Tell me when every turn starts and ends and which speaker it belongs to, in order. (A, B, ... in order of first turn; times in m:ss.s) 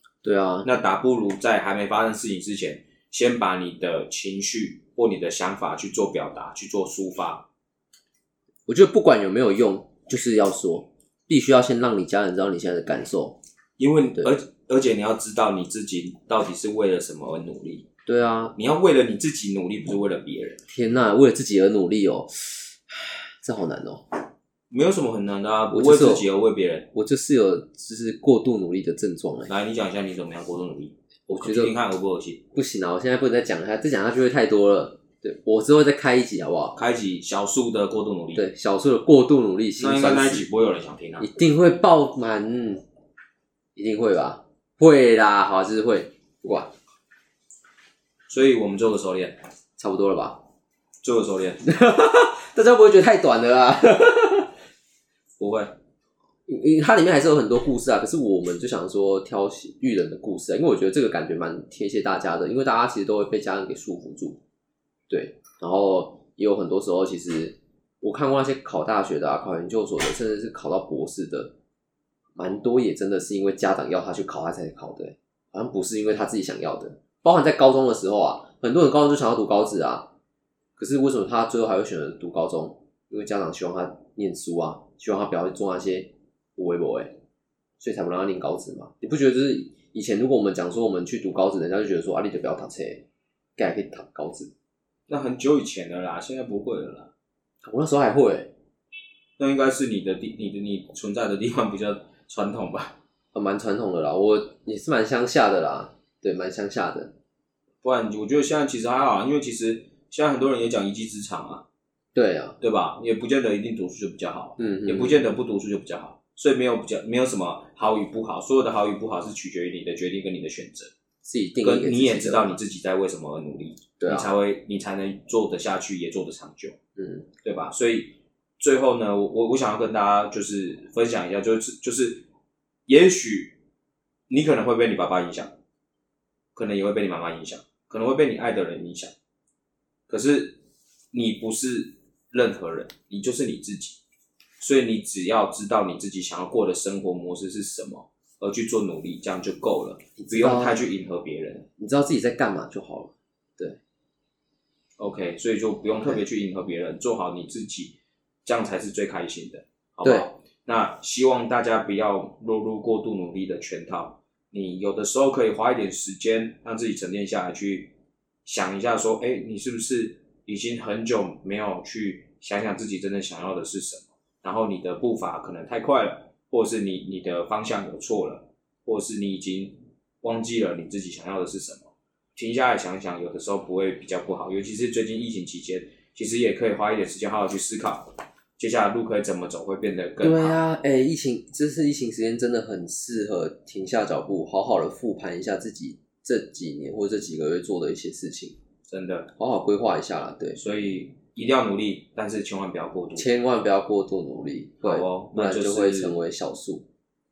0:00.2-0:00.7 A
0:00.6-0:07.5 B
0:08.7-0:13.4 A
0:13.8-0:17.9 B
0:18.1-0:18.6 A
0:18.6-0:20.6 B
0:20.7-0:24.0 A
0:24.7-0:26.9 B
0:25.7-0:26.3 A
0:26.9-0:29.5 A
0:29.5-0:32.4 B
0:31.3-0:31.7 A
0:32.5-0:36.8 A
0:36.8-0:38.4 B
0:38.4-0:40.5 A
0:39.8-0:41.3 B
0:41.2-0:42.8 A
0:43.8-0:46.7 A
0:48.3-0:49.4 B
0:49.8-0:50.4 A
0:51.0-0:51.6 B
0:51.6-0:54.5 A
0:55.4-0:55.7 B
0:56.5-1:04.4 A
1:05.1-1:11.5 A
1:12.4-1:20.1 A
1:20.8-1:27.2 A
1:27.8-1:33.0 A
1:33.6-1:34.5 A
1:35.1-1:37.1 B
1:37.6-1:38.5 A
1:39.4-1:43.0 B
1:43.3-1:47.1 A
1:47.8-1:51.6 B
1:52.2-1:52.6 A
1:52.6-2:00.9 B
1:54.6-1:55.3 A
2:01.2-2:02.5 A
2:01.6-2:06.8 B
2:04.0-2:04.3 A
2:07.0-2:07.3 A
2:07.4-2:12.2 B
2:12.9-2:13.6 B
2:14.3-2:15.5 B
2:16.6-2:19.1 B
2:20.1-2:20.6 B
2:21.1-2:24.0 B
2:24.6-2:31.7 B
2:30.2-2:30.9 A
2:31.8-2:33.8 A
2:35.0-2:47.9 B
2:40.0-2:40.3 A
2:48.4-3:10.6 B
3:10.2-3:18.6 A
3:18.9-3:19.3 B
3:19.4-3:20.6 A
3:20.6-3:23.3 B
3:23.2-3:26.8 A
3:24.8-3:26.2 B